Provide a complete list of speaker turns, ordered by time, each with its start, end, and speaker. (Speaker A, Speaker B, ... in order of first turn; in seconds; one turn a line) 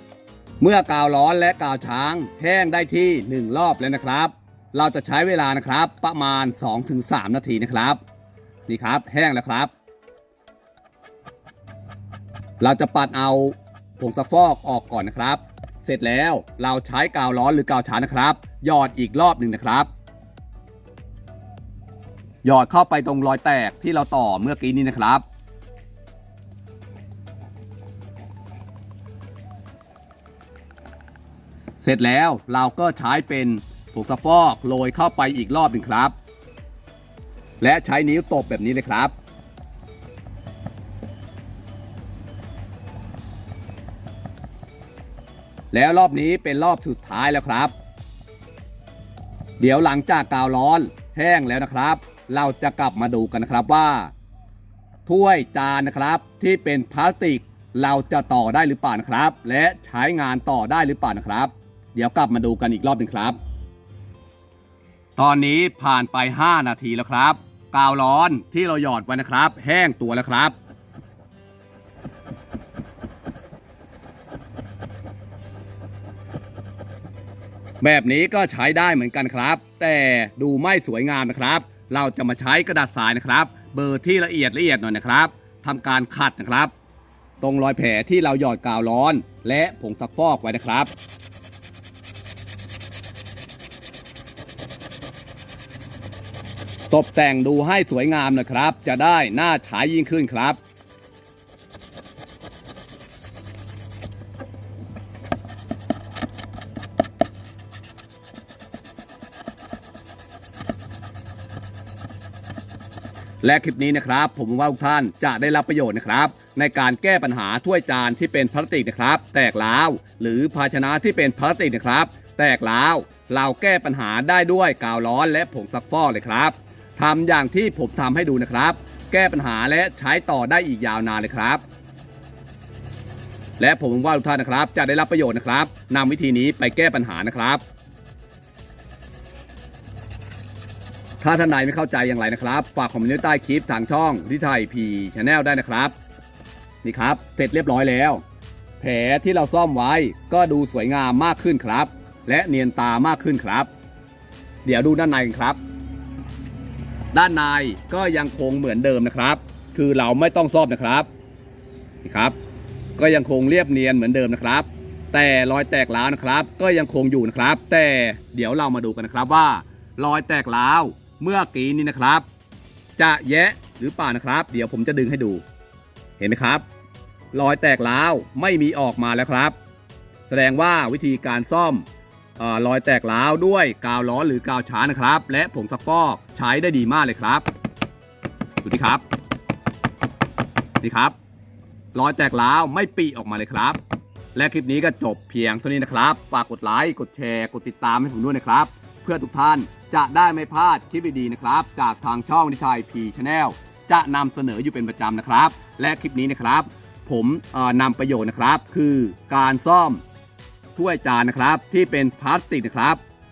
Speaker A: 0.6-8.0
Speaker A: 8.7-9.7
Speaker A: 12.6-19.9
Speaker A: 22.4-25.2
Speaker A: 31.8-36.1
Speaker A: 37.6-39.1
Speaker A: 45.7-47.7
Speaker A: 49.6-54.1
Speaker A: 55.1-63.4
Speaker A: 65.2-70.5
Speaker A: 77.8-86.7
Speaker A: 87.4-90.9
Speaker A: 96.9-100.6
Speaker A: 113.4-131.6
Speaker A: 133.6-137.6
Speaker A: 141.2-145.9
Speaker A: 146.8-148.2
Speaker A: 148.8-153.7
Speaker A: 154.7-155.6
Speaker A: 157.1-161.1
Speaker A: 162.0-162.4
Speaker A: 163.0-172.2
Speaker A: 173.0-175.4
Speaker A: 176.2-176.6
Speaker A: 177.3-179.6
Speaker A: 180.3-181.9
Speaker A: 182.4-187.4
Speaker A: 188.6-189.0
Speaker A: 190.8-191.2
Speaker A: 191.9-193.8
Speaker A: 194.3-210.0
Speaker A: 210.8-213.0